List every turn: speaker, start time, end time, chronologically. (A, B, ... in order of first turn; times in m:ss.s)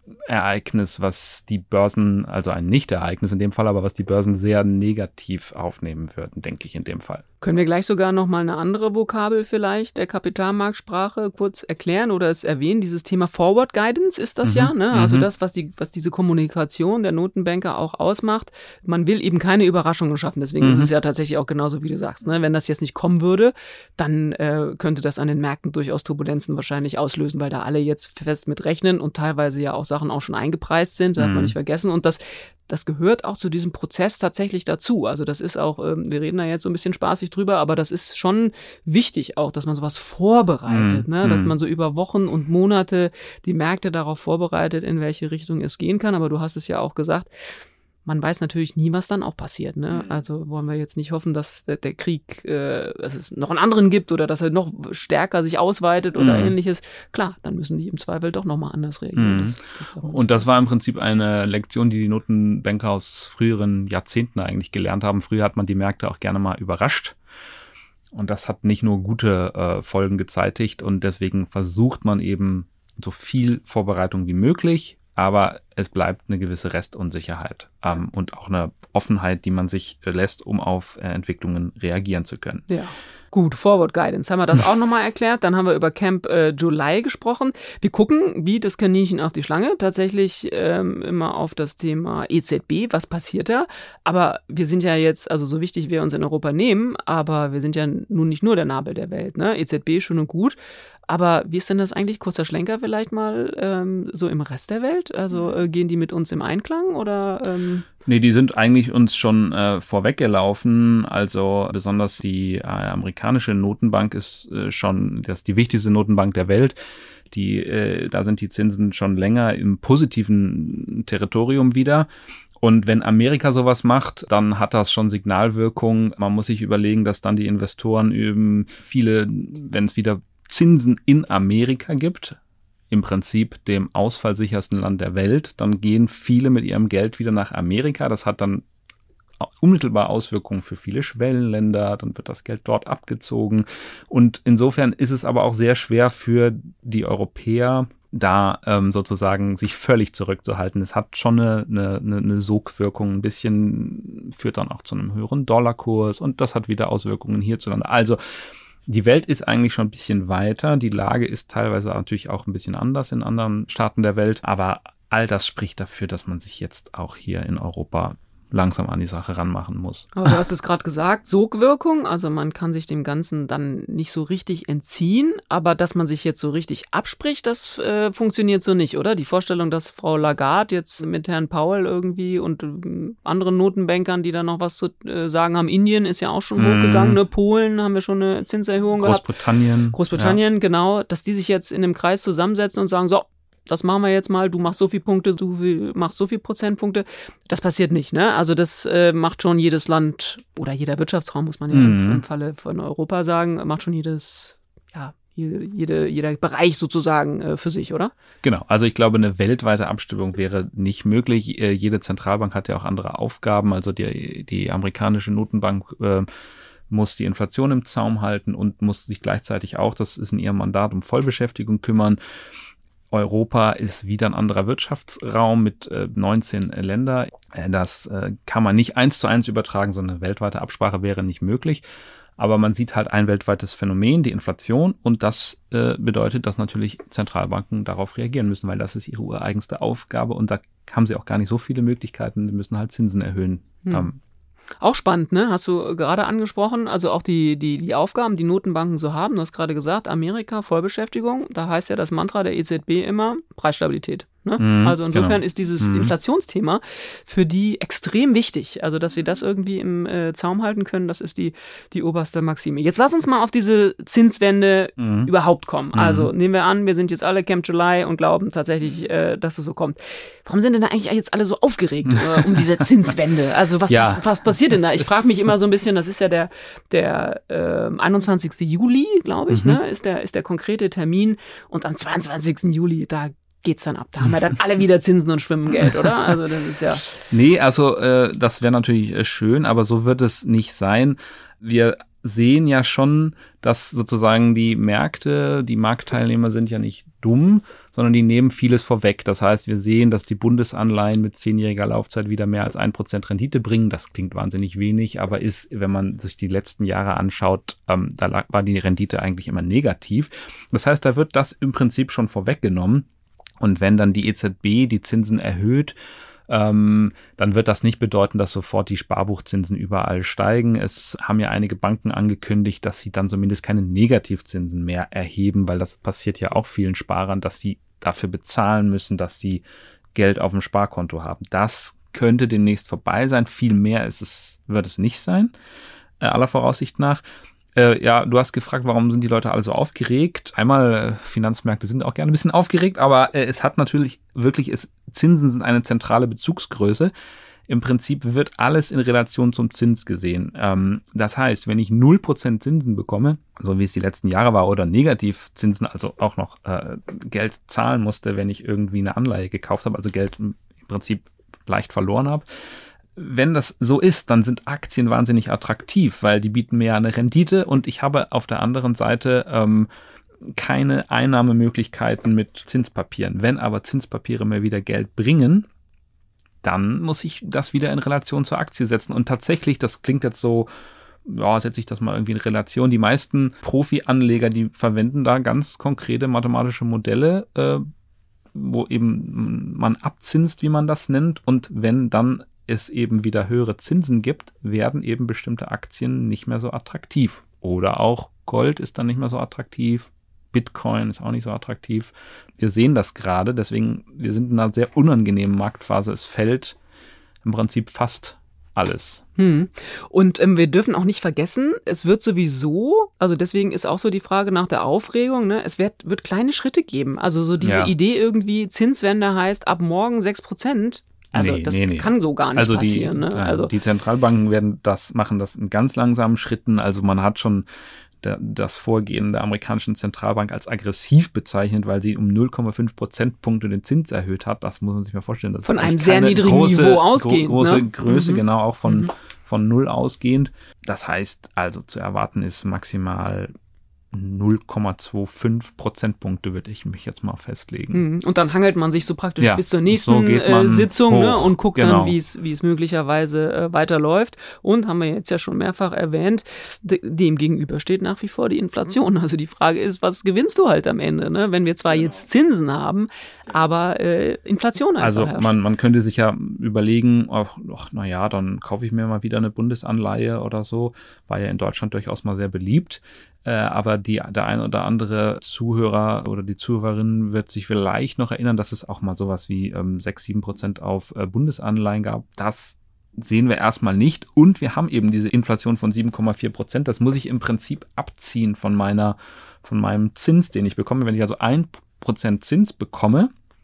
0:00.3-0:07.2 A
0:07.4-0:47.3 B
0:14.4-0:15.3 A
0:20.6-0:20.9 A
0:31.2-0:31.6 A
0:40.7-0:41.5 A
0:48.1-1:00.4 B
0:56.2-0:56.5 A
0:59.2-1:07.2 A
1:08.1-1:22.6 A
1:22.7-1:40.6 B
1:41.1-1:47.9 B
1:48.1-1:56.8 A
1:57.3-2:02.1 A
2:02.6-2:12.4 A
2:12.9-2:18.6 A
2:19.4-2:38.2 A
2:38.9-2:50.3 A
2:50.2-3:09.3 B
3:06.6-3:07.2 A
3:09.0-3:10.4 A
3:09.9-3:28.1 B
3:21.7-3:22.2 A
3:28.4-3:36.3 A
3:36.9-3:42.2 A
3:43.1-3:51.8 A
3:52.4-4:04.2 A
4:04.8-4:47.1 B
4:14.6-4:16.1 A
4:25.0-4:25.3 A
4:25.9-4:26.3 A
4:32.1-4:32.7 A
4:33.9-4:35.4 A
4:39.5-4:39.8 A
4:45.8-4:46.3 A
4:47.2-5:13.1 A
5:13.6-5:16.0 A
5:16.5-5:35.5 A
5:36.2-5:37.2 A
5:37.8-5:47.1 A
5:47.7-6:02.5 A
6:03.2-6:09.9 A
6:10.4-6:15.7 A
6:16.6-6:20.7 A
6:21.2-6:27.9 A
6:28.5-6:46.8 A
6:47.4-6:49.2 A
6:49.4-7:03.7 B
6:57.6-6:57.9 A
7:01.3-7:07.7 A
7:08.2-7:23.5 A
7:15.6-7:19.1 B
7:24.1-7:28.0 A
7:27.9-7:45.5 B
7:29.4-7:32.2 A
7:45.0-8:13.3 A